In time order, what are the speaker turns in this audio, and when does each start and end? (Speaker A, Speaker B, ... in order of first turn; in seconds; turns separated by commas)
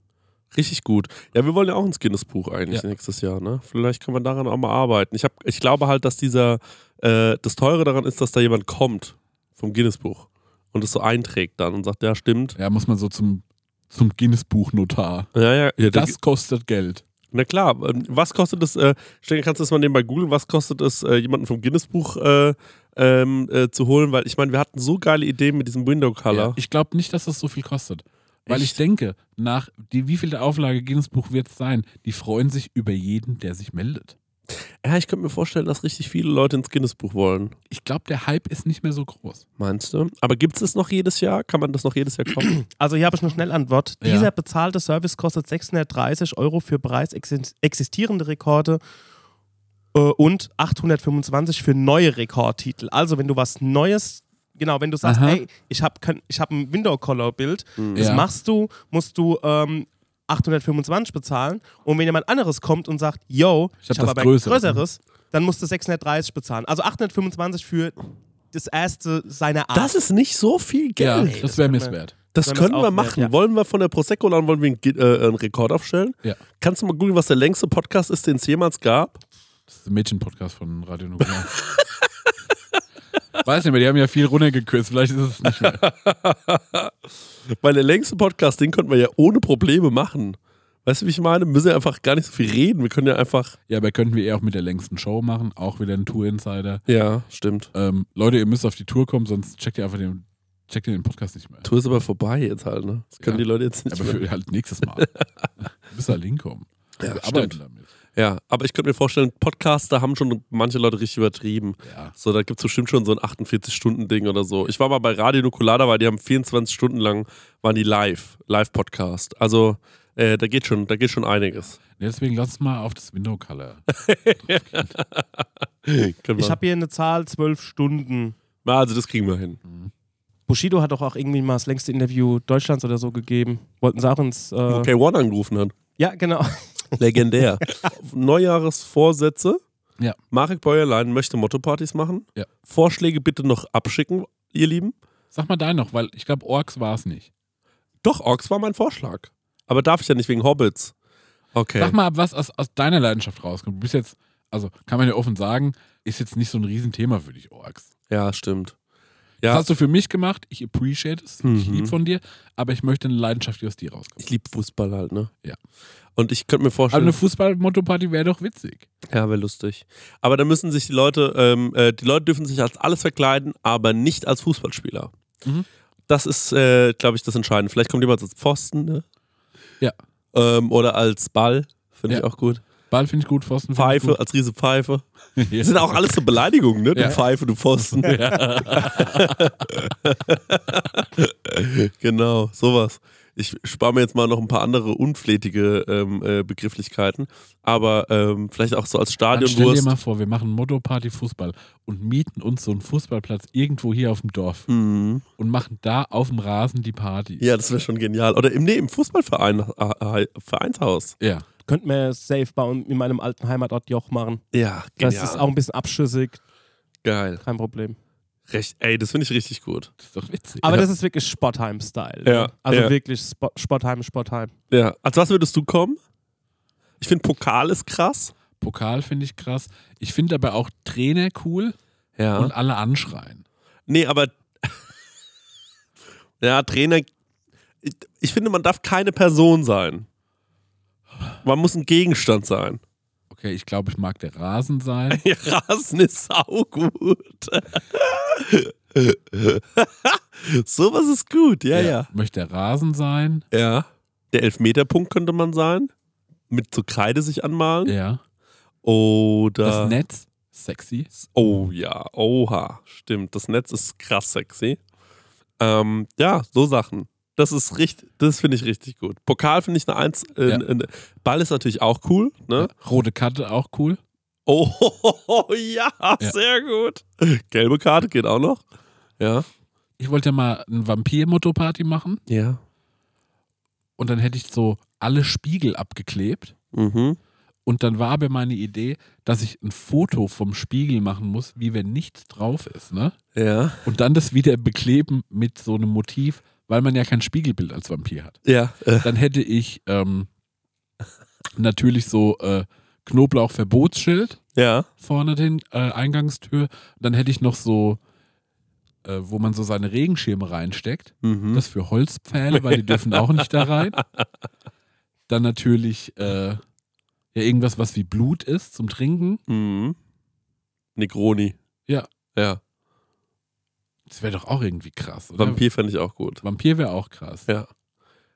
Speaker A: 0.5-12.6, Speaker B: 12.6-15.3, Speaker A: 15.3-16.1, Speaker B: 15.8-17.0, Speaker A: 17.3-26.6, Speaker B: 26.3-34.1, Speaker A: 28.5-28.8, Speaker A: 34.8-37.5, Speaker B: 37.7-39.4, Speaker A: 39.6-42.5, Speaker C: 42.5-48.8, Speaker B: 44.0-44.3, Speaker C: 49.9-68.0, Speaker B: 55.0-55.4, Speaker A: 57.8-58.1, Speaker B: 58.0-58.3, Speaker B: 63.8-64.8, Speaker C: 68.5-70.0, Speaker A: 69.7-71.5, Speaker B: 71.0-72.1, Speaker C: 71.2-73.3, Speaker A: 72.3-79.2, Speaker B: 79.7-81.5, Speaker B: 83.4-85.8, Speaker A: 85.5-86.9, Speaker A: 87.5-93.5, Speaker B: 93.7-96.8, Speaker A: 96.9-97.7, Speaker B: 97.7-101.6, Speaker A: 101.6-104.2, Speaker B: 103.2-105.1, Speaker A: 105.0-105.2, Speaker B: 105.6-107.9, Speaker A: 107.0-107.5, Speaker A: 108.2-121.8, Speaker B: 111.8-112.1, Speaker B: 122.0-123.8, Speaker A: 123.9-126.6, Speaker B: 124.4-124.9, Speaker C: 126.3-128.3, Speaker A: 128.6-129.6, Speaker B: 129.6-129.9, Speaker C: 130.5-134.9, Speaker A: 134.7-135.7, Speaker C: 136.0-137.0, Speaker A: 137.0-139.6, Speaker A: 140.3-144.9, Speaker B: 145.3-147.3, Speaker A: 148.0-150.9, Speaker A: 151.5-151.9, Speaker B: 151.8-157.9, Speaker A: 158.1-158.7, Speaker B: 159.5-164.2, Speaker A: 161.4-161.9, Speaker A: 164.2-165.3, Speaker A: 166.2-167.2, Speaker B: 166.9-168.9, Speaker A: 169.1-175.1, Speaker A: 176.1-179.0, Speaker A: 180.3-182.6, Speaker B: 182.9-184.2, Speaker A: 183.7-185.0, Speaker B: 185.4-186.0, Speaker A: 185.6-199.9, Speaker B: 186.9-187.2, Speaker B: 188.0-189.9, Speaker B: 199.3-204.7, Speaker A: 204.7-205.2, Speaker B: 205.4-207.5, Speaker A: 207.4-211.2, Speaker B: 211.2-211.4, Speaker C: 211.7-214.4, Speaker A: 214.5-215.4, Speaker C: 215.0-216.4, Speaker A: 217.0-217.4, Speaker C: 217.4-218.0, Speaker A: 218.5-219.9, Speaker B: 220.0-220.9, Speaker C: 220.6-224.5, Speaker A: 222.2-222.9, Speaker A: 224.7-226.0, Speaker A: 227.0-228.3, Speaker B: 228.6-231.8, Speaker A: 232.2-232.5, Speaker B: 232.3-233.4, Speaker A: 233.9-234.8, Speaker A: 236.4-237.1, Speaker A: 237.8-240.1, Speaker A: 241.4-242.8, Speaker B: 243.3-245.2, Speaker A: 245.1-252.1, Speaker B: 251.7-253.4, Speaker A: 253.5-255.9, Speaker A: 256.5-257.9, Speaker B: 257.9-258.2, Speaker A: 258.8-260.0, Speaker B: 259.6-261.1, Speaker A: 261.1-264.8, Speaker A: 265.6-272.7, Speaker B: 272.6-274.0, Speaker A: 274.5-278.6, Speaker A: 279.2-279.4, Speaker B: 280.0-282.2, Speaker A: 282.3-282.6, Speaker B: 284.0-286.5, Speaker A: 286.7-287.2, Speaker B: 287.6-293.1, Speaker A: 293.3-293.8, Speaker B: 293.8-298.4, Speaker A: 298.4-299.1, Speaker B: 299.0-300.3, Speaker B: 301.6-304.4, Speaker A: 304.5-304.9, Speaker B: 305.0-308.0, Speaker B: 309.0-314.0, Speaker A: 311.2-311.6, Speaker A: 312.5-314.0, Speaker B: 315.3-316.6, Speaker B: 317.3-319.4, Speaker A: 319.5-319.9, Speaker A: 320.9-321.6, Speaker B: 324.1-325.6, Speaker A: 325.4-326.4, Speaker B: 326.4-327.5